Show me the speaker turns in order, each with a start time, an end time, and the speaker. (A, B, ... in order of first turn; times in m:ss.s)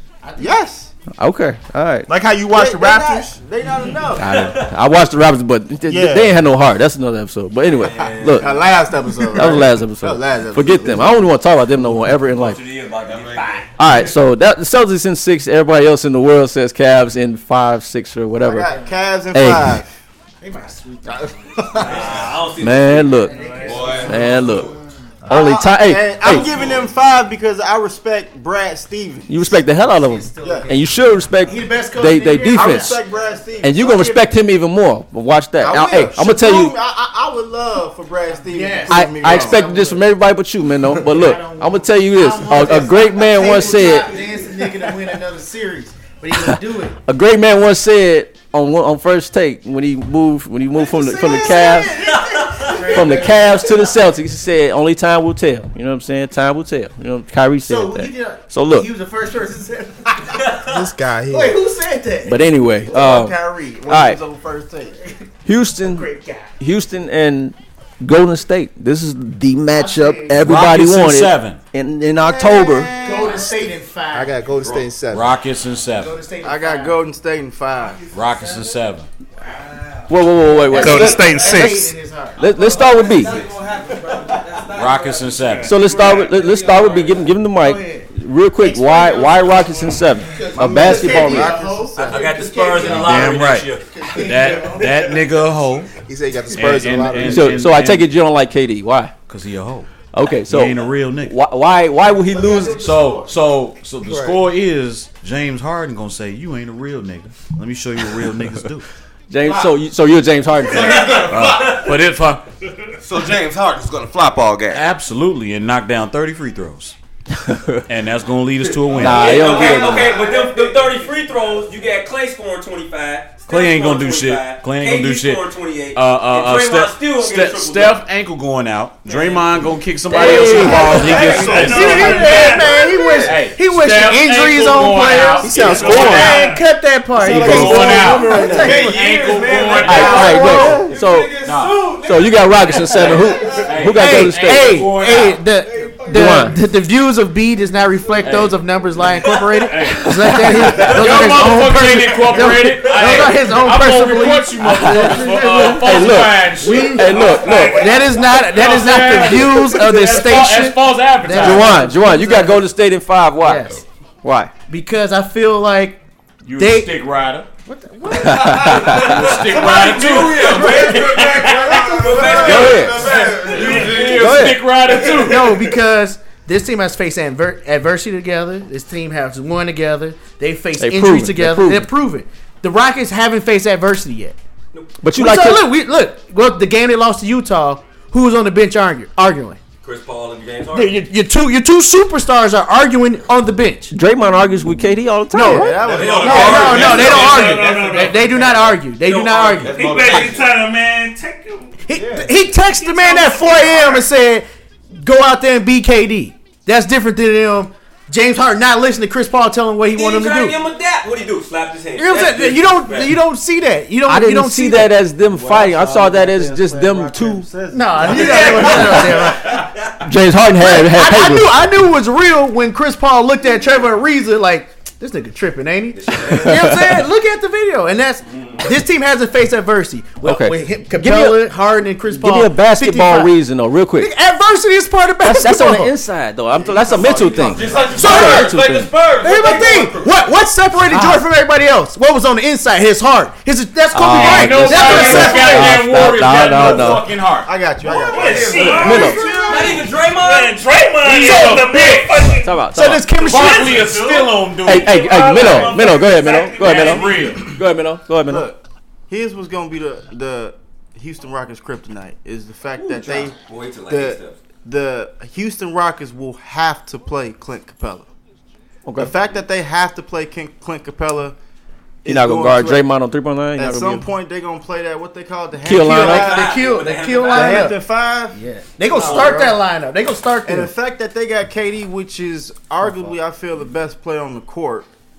0:00.2-0:00.7 A
0:00.4-0:00.9 B
0:01.1-0:02.1 C
0:02.1-0:03.4 D
0:02.5-0:04.4 B
0:04.2-0:08.5 C
0:04.3-0:04.7 E
0:05.9-0:06.4 D
0:07.7-0:08.7 E
0:08.0-0:11.2 B
0:09.3-0:12.6 C
0:12.3-0:13.7 E
0:13.1-0:13.6 F
0:13.8-0:18.7 C
0:18.4-0:19.9 B
0:19.3-0:19.8 C
0:20.4-0:22.0 A
0:21.1-0:22.3 B
0:21.8-0:23.2 E
0:22.6-0:24.7 C
0:23.2-0:24.7 A
0:23.2-0:24.3 G
0:23.7-0:24.1 F
0:25.3-0:26.7 C
0:25.3-0:29.6 B
0:29.3-0:33.0 C
0:29.9-0:33.0 A
0:30.4-0:30.7 B
0:32.5-0:34.2 B
0:33.6-0:36.8 C
0:35.6-0:39.7 B
0:38.5-0:40.0 A
0:38.9-0:44.2 C
0:41.1-0:47.0 A
0:44.4-0:44.8 B
0:46.4-0:52.0 C
0:50.8-0:53.9 A
0:52.1-0:52.8 E
0:52.7-0:58.9 C
0:57.7-1:00.5 A
1:00.4-1:00.8 E
1:00.6-1:01.6 D
1:01.3-1:02.4 A
1:02.2-1:04.2 C
1:02.8-1:05.0 B
1:05.4-1:12.9 C
1:05.8-1:06.5 A
1:09.8-1:10.4 A
1:10.4-1:11.6 H
1:12.2-1:13.6 B
1:13.0-1:14.5 A
1:14.1-1:15.4 D
1:14.6-1:14.9 E
1:15.1-1:16.2 H
1:15.9-1:17.0 A
1:16.4-1:18.1 B
1:18.1-1:19.1 H
1:18.2-1:18.6 A
1:20.1-1:21.6 C
1:20.7-1:22.5 A
1:20.7-1:21.9 G
1:22.4-1:23.4 C
1:22.5-1:25.3 F
1:24.6-1:25.8 H
1:25.4-1:26.2 G
1:25.6-1:31.6 C
1:26.7-1:27.2 F
1:27.6-1:28.1 A
1:28.6-1:35.2 A
1:30.4-1:32.9 B
1:32.0-1:33.9 E
1:32.9-1:35.9 H
1:36.0-1:37.7 D
1:36.5-1:38.1 H
1:37.2-1:39.1 C
1:39.3-1:41.4 H
1:40.1-1:42.9 C
1:42.7-1:48.9 H
1:44.0-1:44.4 D
1:49.3-1:51.2 C
1:50.7-1:51.6 F
1:50.7-1:52.0 E
1:51.1-1:52.4 H
1:53.0-1:54.8 F
1:54.7-1:56.9 H
1:57.3-1:57.8 C
1:57.9-1:59.6 H
1:58.9-2:00.2 C
1:59.0-2:08.0 E
2:00.2-2:00.6 F
2:03.5-2:05.4 H
2:05.9-2:12.5 H
2:10.1-2:19.3 A
2:10.1-2:11.4 C
2:11.2-2:11.5 F
2:11.4-2:13.1 G
2:13.2-2:16.4 H
2:15.4-2:16.4 D
2:15.6-2:16.7 G
2:17.2-2:20.7 H
2:17.2-2:18.8 D
2:17.3-2:17.8 C
2:18.6-2:21.8 F
2:19.8-2:24.8 C
2:20.2-2:20.9 D
2:21.3-2:22.0 H
2:22.9-2:25.4 H
2:23.9-2:42.7 A
2:26.1-2:26.6 C
2:28.2-2:37.7 H
2:30.2-2:30.9 C
2:34.6-2:37.9 C
2:37.2-2:38.4 G
2:38.2-2:41.9 H
2:41.4-2:44.5 C
2:43.4-2:43.8 A
2:44.7-2:46.0 A
2:46.4-2:47.5 H
2:46.6-2:46.9 A
2:47.7-2:48.9 A
2:48.2-2:49.0 C
2:48.6-2:55.6 H
2:49.0-2:53.2 E
2:49.9-2:54.4 F
2:51.6-2:52.5 A
2:52.2-2:52.6 B
2:52.4-2:53.0 C
2:53.2-2:54.2 G
2:54.1-2:54.6 C
2:55.0-3:04.4 A
3:00.8-3:01.9 C
3:05.0-3:05.7 C
3:05.1-3:09.6 A
3:09.8-3:11.0 E
3:10.7-3:13.9 A
3:13.9-3:16.0 C
3:15.3-3:19.8 A
3:15.4-3:17.3 B
3:15.8-3:17.7 E
3:16.0-3:17.3 H
3:16.4-3:18.6 G
3:19.0-3:19.7 E
3:19.6-3:21.8 G
3:19.7-3:20.5 F
3:21.9-3:24.4 A
3:22.0-3:22.3 D
3:22.6-3:24.0 G
3:25.0-3:30.6 A
3:29.9-3:33.2 E
3:32.0-3:34.9 A
3:34.1-3:37.5 C
3:35.2-3:39.3 B
3:37.7-3:39.7 A
3:38.1-3:39.9 E
3:38.7-3:39.1 C
3:40.0-3:41.5 C
3:40.6-3:53.3 A
3:46.0-3:46.4 E
3:46.1-3:47.0 C
3:50.2-3:51.5 C
3:52.1-3:54.1 C
3:54.0-3:55.9 A
3:55.2-3:58.9 C
3:57.3-4:00.1 F
3:57.4-3:58.5 H
3:58.0-3:58.5 A
3:59.2-4:05.8 A
4:00.9-4:01.2 C
4:03.9-4:07.1 C
4:04.1-4:07.6 H
4:07.4-4:09.7 B
4:08.0-4:17.5 G
4:08.3-4:08.6 F
4:08.5-4:10.6 E
4:08.8-4:09.2 C
4:11.0-4:12.3 H
4:12.4-4:13.2 C
4:12.7-4:13.8 A
4:13.1-4:15.7 H
4:14.6-4:18.5 C
4:16.5-4:17.5 H
4:18.2-4:23.3 B
4:22.8-4:24.4 E
4:23.9-4:28.1 B
4:28.8-4:29.1 C
4:29.0-4:31.4 B
4:32.0-4:32.9 B
4:32.1-4:34.1 C
4:33.6-4:36.6 B
4:35.6-4:36.4 C
4:35.7-4:37.8 A
4:36.0-4:37.8 E
4:37.2-4:39.6 B
4:38.3-4:40.7 A
4:39.0-4:39.3 E
4:40.4-4:44.9 B